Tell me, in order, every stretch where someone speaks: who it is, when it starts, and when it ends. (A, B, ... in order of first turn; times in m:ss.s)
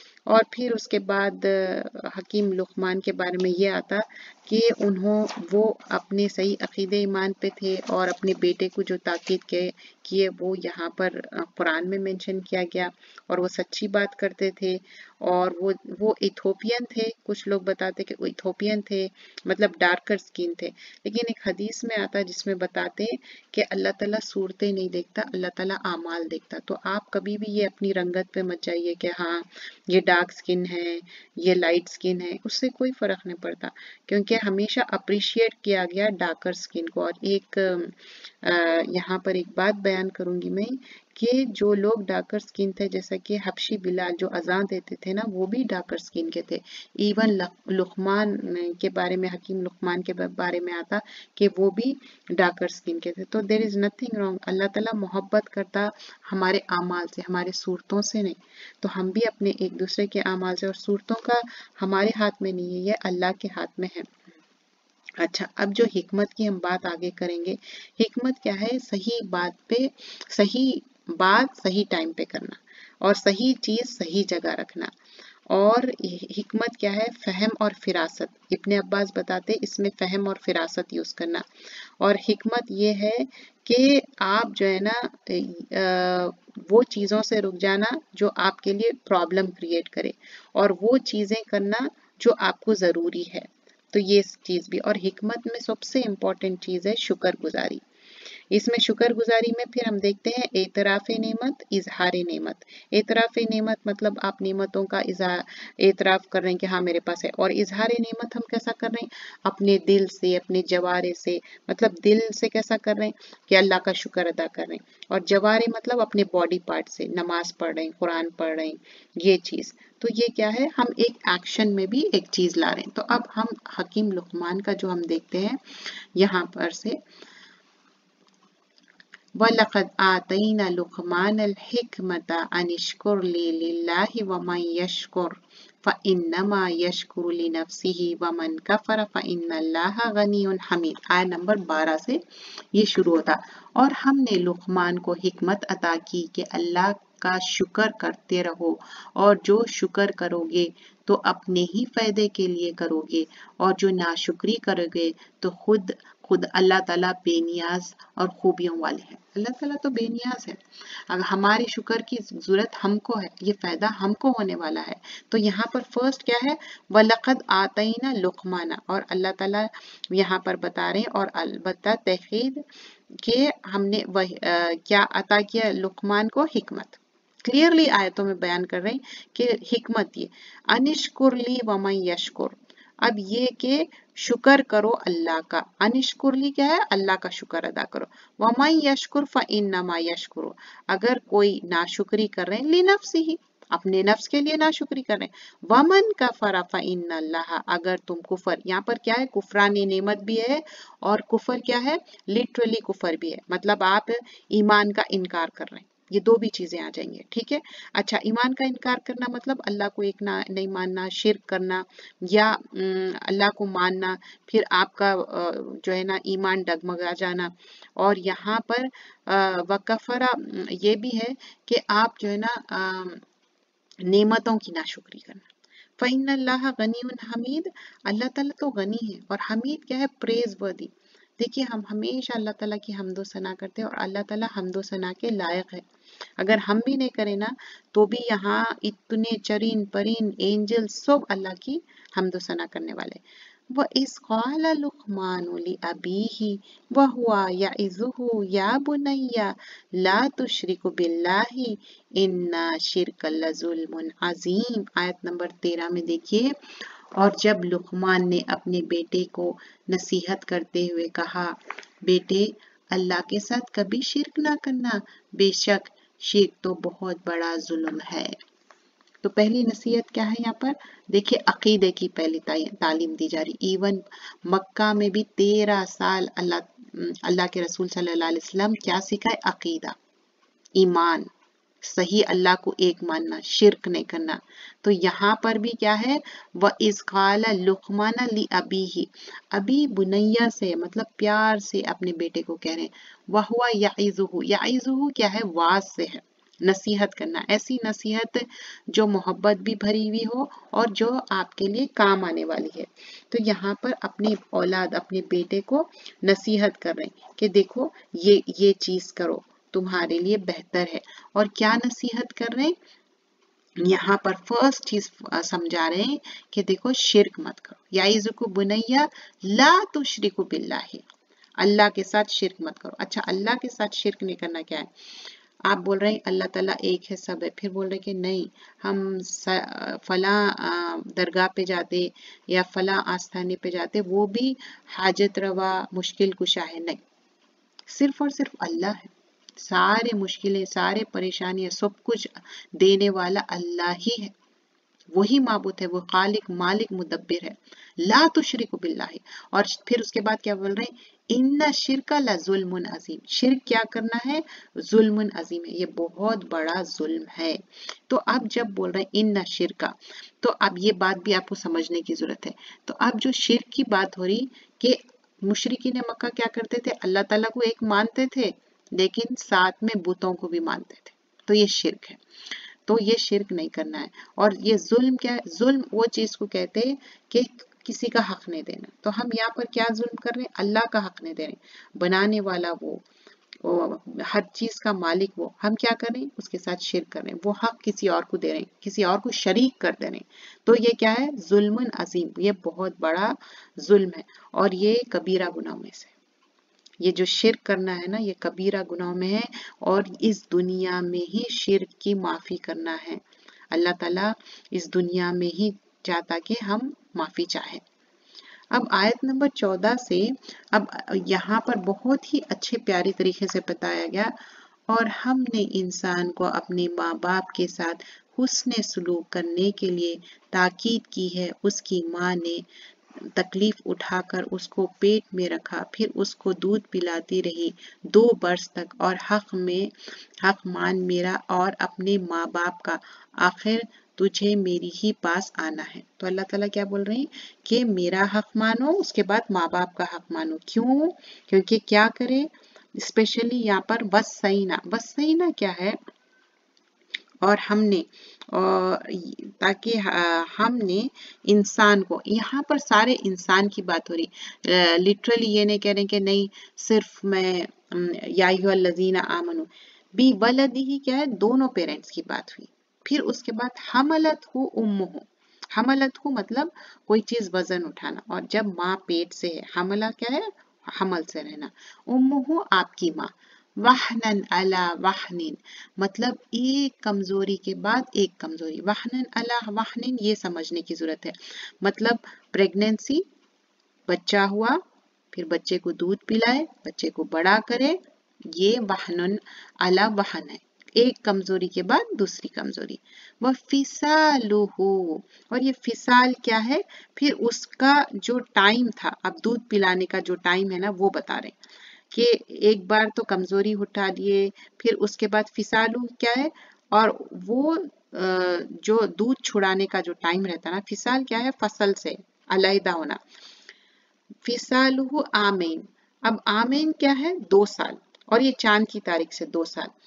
0:00.3-1:04.1 A
1:05.2-1:14.9 A
1:15.5-1:21.4 A
1:22.0-1:37.8 A
1:38.5-2:07.0 A
2:09.4-2:22.2 A
2:22.7-2:52.6 A
2:53.2-3:43.2 A
3:44.0-3:45.4 A
3:46.0-3:55.8 A
3:56.4-4:16.5 A
4:17.1-4:28.4 A
4:29.2-4:40.0 A
4:40.8-4:41.3 A
4:41.8-5:12.7 A
5:13.8-5:21.0 A
5:21.6-5:24.9 A
5:25.7-5:37.0 A
5:37.9-5:44.3 A
5:45.1-6:12.2 A
6:12.8-6:23.0 A
6:23.6-6:36.1 A
6:37.0-6:47.8 A
6:48.7-6:54.3 A
6:54.9-7:02.6 A
7:03.2-7:26.0 A
7:27.4-8:03.2 A
8:04.1-8:04.8 A
8:05.3-8:21.5 A
8:22.1-8:33.2 A
8:34.4-8:39.9 A